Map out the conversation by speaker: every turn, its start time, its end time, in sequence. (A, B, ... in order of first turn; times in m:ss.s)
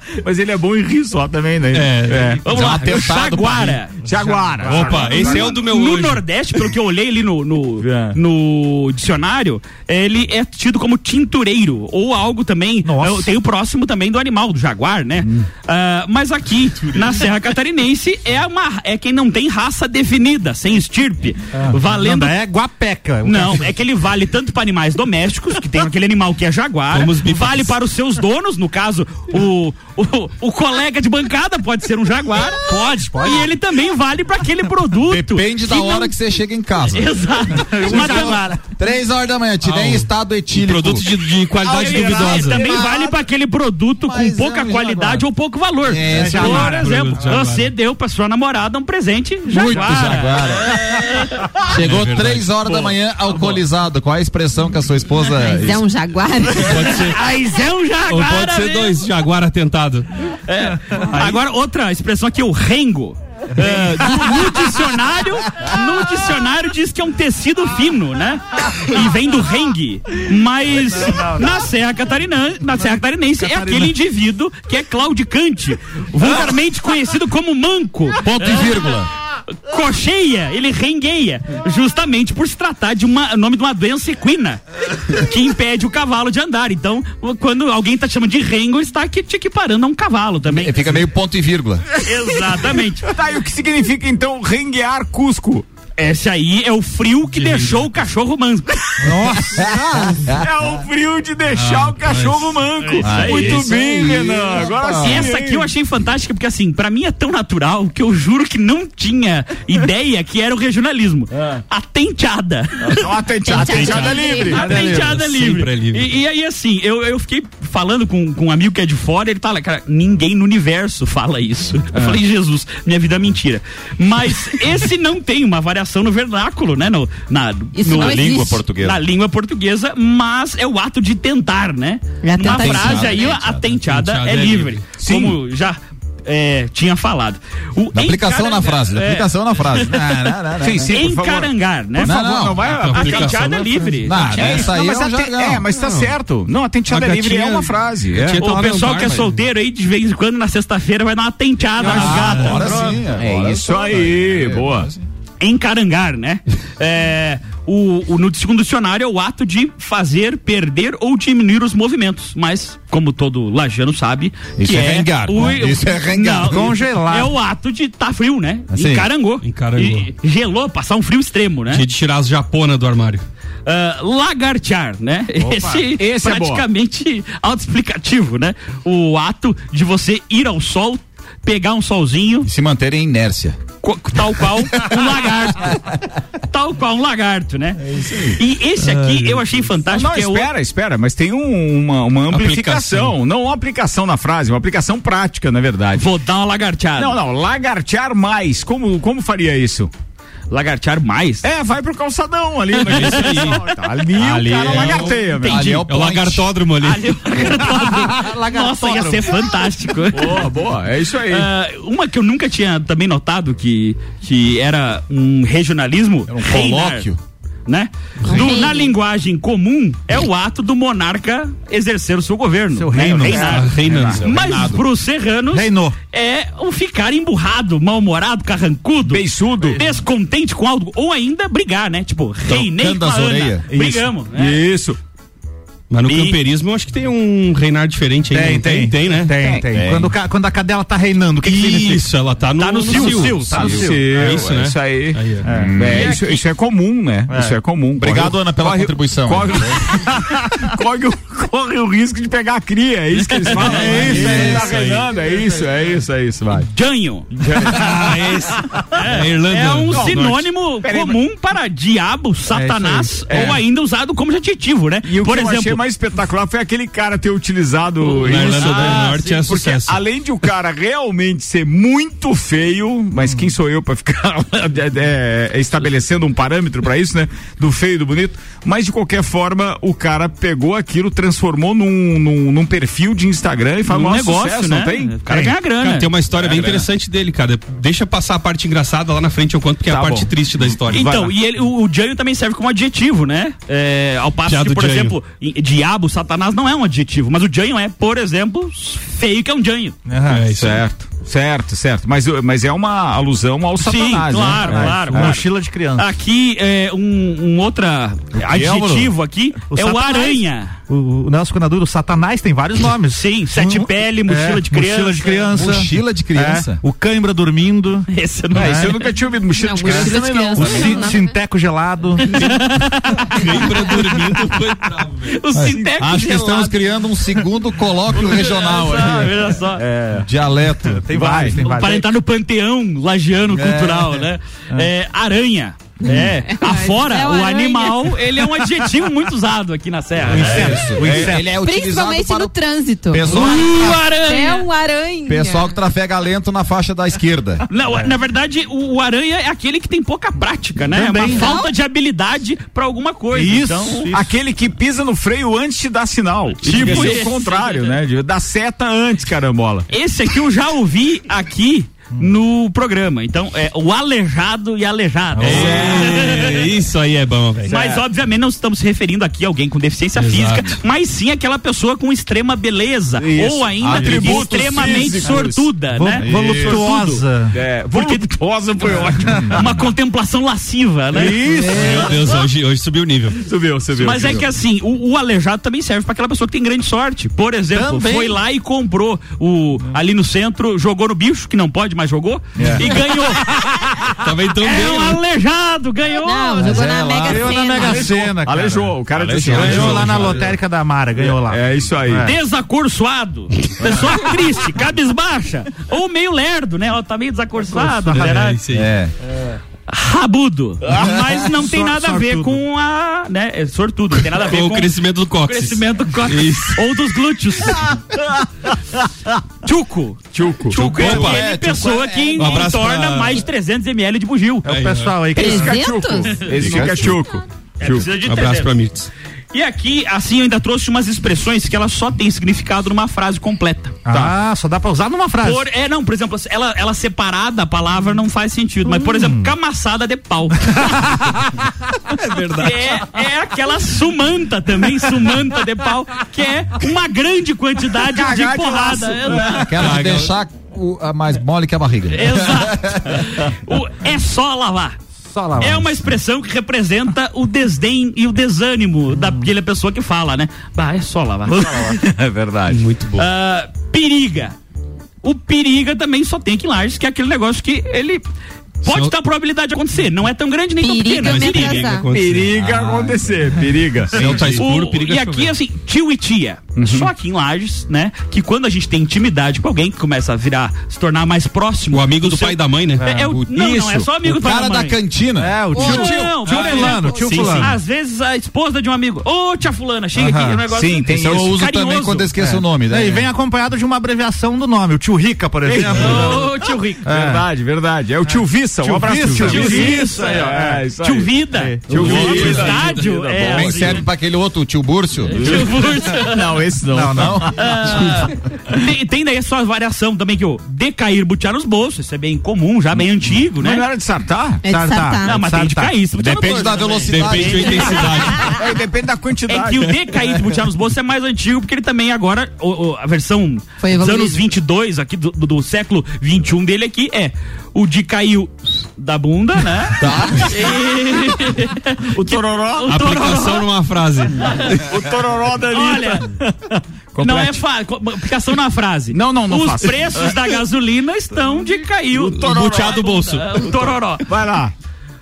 0:00.2-0:05.6 A
0:01.7-0:02.4 B
0:02.4-0:04.0 C
0:02.4-0:03.8 D
0:04.5-0:05.0 E
0:04.6-0:06.6 B
0:05.1-0:22.4 C
0:07.8-0:08.2 A
0:12.8-0:13.3 E
0:21.5-0:23.7 E
0:23.2-0:36.1 C
0:26.9-0:27.8 B
0:32.6-0:33.5 E
0:35.0-0:41.1 D
0:36.9-0:38.4 C
0:37.6-0:38.7 E
0:39.6-0:42.8 B
0:41.6-0:51.2 C
0:41.9-0:42.3 A
0:44.0-0:45.2 D
0:45.8-0:46.7 D
0:46.1-0:47.0 E
0:46.3-0:47.7 B
0:49.5-0:50.9 D
0:51.6-0:55.8 D
0:51.6-0:52.9 B
0:55.3-0:57.1 F
0:56.6-0:57.2 B
0:56.9-0:59.0 C
0:58.1-1:00.1 B
1:00.4-1:18.9 C
1:11.0-1:11.5 E
1:13.4-1:13.9 E
1:18.2-1:19.1 D
1:18.4-1:19.0 E
1:19.5-1:31.0 C
1:30.5-1:32.0 D
1:32.0-1:33.1 C
1:33.0-1:35.6 A
1:36.0-1:39.1 C
1:37.3-1:37.9 B
1:39.0-1:40.2 E
1:39.4-1:40.4 D
1:40.4-1:45.7 A
1:41.5-1:42.6 B
1:42.8-1:43.8 C
1:43.0-1:45.3 D
1:45.0-2:20.3 C
1:52.8-1:54.7 A
1:53.4-1:55.0 F
1:54.5-1:56.1 B
2:07.8-2:08.6 F
2:08.0-2:09.0 D
2:12.2-2:13.3 F
2:12.4-2:13.8 D
2:13.8-2:14.8 B
2:15.0-2:15.3 A
2:17.9-2:21.0 D
2:20.6-2:23.5 A
2:20.9-2:22.2 C
2:22.0-2:22.7 D
2:22.6-2:24.2 B
2:22.9-2:24.7 C
2:24.0-2:25.6 D
2:24.3-2:28.4 A
2:25.7-2:26.1 B
2:26.9-2:29.3 B
2:28.4-2:33.0 C
2:31.8-2:32.6 B
2:31.8-2:34.9 A
2:31.8-2:35.0 D
2:35.4-2:51.8 C
2:44.6-2:46.8 D
2:46.4-2:47.3 E
2:48.7-2:49.1 D
2:49.4-2:50.1 B
2:51.7-2:53.2 B
2:53.6-3:02.5 C
2:55.4-2:55.9 E
2:55.9-2:56.6 A
3:02.4-3:03.6 D
3:03.8-3:05.9 C
3:06.5-3:10.5 C
3:07.9-3:08.3 A
3:08.8-3:09.6 B
3:09.8-3:16.0 A
3:12.3-3:13.2 B
3:16.0-3:17.2 C
3:17.0-3:19.9 A
3:20.5-3:21.5 C
3:21.4-3:25.7 A
3:22.8-3:23.6 C
3:22.8-3:23.6 B
3:24.2-3:27.2 B
3:24.8-3:25.8 C
3:25.4-3:26.5 D
3:26.8-3:30.4 C
3:27.4-3:29.5 E
3:30.1-3:31.5 A
3:31.3-3:37.1 C
3:36.3-3:37.2 D
3:37.7-3:54.6 C
3:38.2-3:38.9 F
3:42.7-3:43.5 E
3:42.9-3:44.8 A
3:43.3-3:44.3 B
3:44.1-3:44.8 D
3:45.5-3:45.9 E
3:49.0-3:49.8 A
3:52.5-3:53.6 D
3:53.7-3:55.0 A
3:55.9-3:59.6 B
3:56.0-3:56.4 C
3:58.3-4:02.1 E
3:59.3-3:59.6 A
3:59.7-4:00.1 D
4:01.4-4:03.4 B
4:02.6-4:03.7 C
4:02.9-4:04.1 E
4:03.5-4:16.7 A
4:03.5-4:03.9 D
4:04.1-4:05.4 B
4:05.4-4:05.8 E
4:05.5-4:06.1 D
4:05.9-4:06.4 C
4:07.3-4:07.6 E
4:08.0-4:09.8 D
4:13.5-4:14.7 E
4:13.6-4:14.1 C
4:13.6-4:15.1 B
4:14.1-4:14.7 D
4:16.7-4:18.1 C
4:17.4-4:17.8 A
4:17.6-4:20.3 B
4:18.9-4:25.8 C
4:19.9-4:21.2 A
4:22.5-4:23.3 E
4:23.3-4:23.6 A
4:25.0-4:45.2 A
4:28.0-4:29.5 C
4:28.2-4:30.0 B
4:43.9-4:46.1 C
4:45.3-4:51.2 B
4:46.4-4:46.8 A
4:49.9-4:51.3 A
4:50.9-5:00.0 C
4:54.4-4:55.2 B
5:00.1-5:00.5 E
5:00.3-5:00.8 B
5:00.5-5:05.4 A
5:03.8-5:10.8 C
5:04.6-5:06.0 E
5:08.5-5:09.1 E
5:09.7-5:18.9 E
5:13.1-5:15.5 C
5:15.5-5:16.8 D
5:18.1-5:19.1 C
5:18.5-5:21.0 A
5:19.5-5:21.3 F
5:20.6-5:22.8 E
5:22.2-5:23.5 C
5:23.3-5:25.4 B
5:25.3-5:26.8 C
5:25.5-5:29.6 D
5:28.1-5:29.8 C
5:29.8-5:30.2 A
5:30.2-5:31.1 D
5:30.9-5:32.1 E
5:31.1-5:31.6 A
5:31.6-5:40.9 C
5:33.5-5:34.2 D
5:36.2-5:38.2 F
5:40.2-5:41.5 E
5:40.3-5:42.5 D
5:41.0-5:41.3 A
5:41.4-5:45.8 F
5:43.1-5:44.0 D
5:43.3-5:44.7 C
5:45.2-5:47.6 D
5:47.7-5:54.1 C
5:50.9-5:51.6 E
5:51.3-5:51.7 F
5:53.3-5:54.3 E
5:54.1-5:59.8 A
5:56.6-5:57.9 C
5:56.7-5:57.2 B
5:59.9-6:06.6 C
6:05.4-6:07.7 B
6:05.4-6:06.3 A
6:07.7-6:17.2 C
6:07.7-6:08.0 A
6:10.2-6:10.8 B
6:13.2-6:16.9 A
6:13.8-6:14.7 D
6:15.8-6:17.5 E
6:16.3-6:16.6 D
6:17.5-6:19.9 A
6:17.9-6:21.5 C
6:21.1-6:22.1 E
6:21.4-6:23.4 B
6:23.4-6:24.5 A
6:24.0-6:36.7 C
6:27.7-6:28.4 E
6:34.2-6:35.2 B
6:36.2-6:38.1 F
6:36.6-6:37.8 D
6:37.2-6:42.3 E
6:37.8-6:40.4 A
6:39.1-6:40.5 D
6:41.2-6:42.3 A
6:42.2-6:48.6 C
6:47.7-6:48.3 E
6:48.1-6:48.9 B
6:48.7-6:49.1 D
6:49.9-6:57.8 C
6:51.0-6:52.6 E
6:54.2-6:56.8 B
6:59.6-7:04.7 C
7:00.3-7:01.3 A
7:00.8-7:01.5 B
7:00.8-7:02.6 D
7:02.4-7:03.4 B
7:04.6-7:05.8 E
7:04.6-7:05.2 B
7:05.3-7:06.4 F
7:05.4-7:08.1 A
7:06.6-7:07.2 D
7:06.6-7:06.9 E
7:07.8-7:08.7 C
7:08.2-7:09.1 B
7:09.5-7:14.0 C
7:14.0-7:15.6 E
7:14.1-7:14.4 A
7:15.4-7:21.4 C
7:18.9-7:19.5 E
7:20.7-7:21.4 E
7:22.6-7:29.7 C
7:28.0-7:29.7 A
7:29.4-7:33.2 D
7:29.8-7:30.4 B
7:32.1-7:35.0 C
7:35.3-7:36.0 E
7:35.6-7:42.0 C
7:41.5-7:42.8 A
7:42.7-7:43.2 B
7:43.2-7:44.6 C
7:45.2-7:48.2 C
7:48.8-7:51.9 C
7:48.8-7:49.1 B
7:50.8-7:52.1 F
7:51.2-7:53.1 B
7:52.1-7:54.6 A
7:54.1-7:55.5 B
7:54.5-8:05.0 C
7:56.8-7:57.1 A
8:01.9-8:03.0 B
8:03.0-8:03.3 E
8:03.3-8:05.7 D
8:03.5-8:04.0 A
8:05.4-8:07.7 E
8:05.7-8:12.3 C
8:06.4-8:07.7 B
8:10.1-8:10.6 E
8:10.7-8:11.6 A
8:11.1-8:13.3 D
8:12.4-8:17.4 E
8:15.6-8:16.4 A
8:15.7-8:17.0 C
8:17.1-8:24.0 A
8:18.3-8:20.8 E
8:19.3-8:24.0 C
8:21.5-8:22.4 E
8:21.9-8:23.0 B
8:23.5-8:25.5 D
8:25.3-8:26.4 C
8:25.3-8:28.2 A
8:26.9-8:27.4 E
8:27.2-8:27.4 D
8:27.5-8:33.8 C
8:33.2-8:34.6 A
8:34.6-8:35.4 F
8:34.6-8:35.9 E
8:35.2-8:38.5 C
8:36.2-8:38.2 D
8:37.1-8:38.6 B
8:38.4-8:39.9 A
8:39.5-8:53.7 C
8:43.8-8:44.4 F
8:50.0-8:50.3 D
8:50.0-8:50.3 A
8:52.1-8:53.0 A
8:52.9-8:54.6 B
8:54.5-8:57.6 A
8:55.7-8:56.3 C
8:57.2-9:04.2 C
8:59.1-9:00.6 A
9:02.1-9:04.7 A
9:02.4-9:03.7 B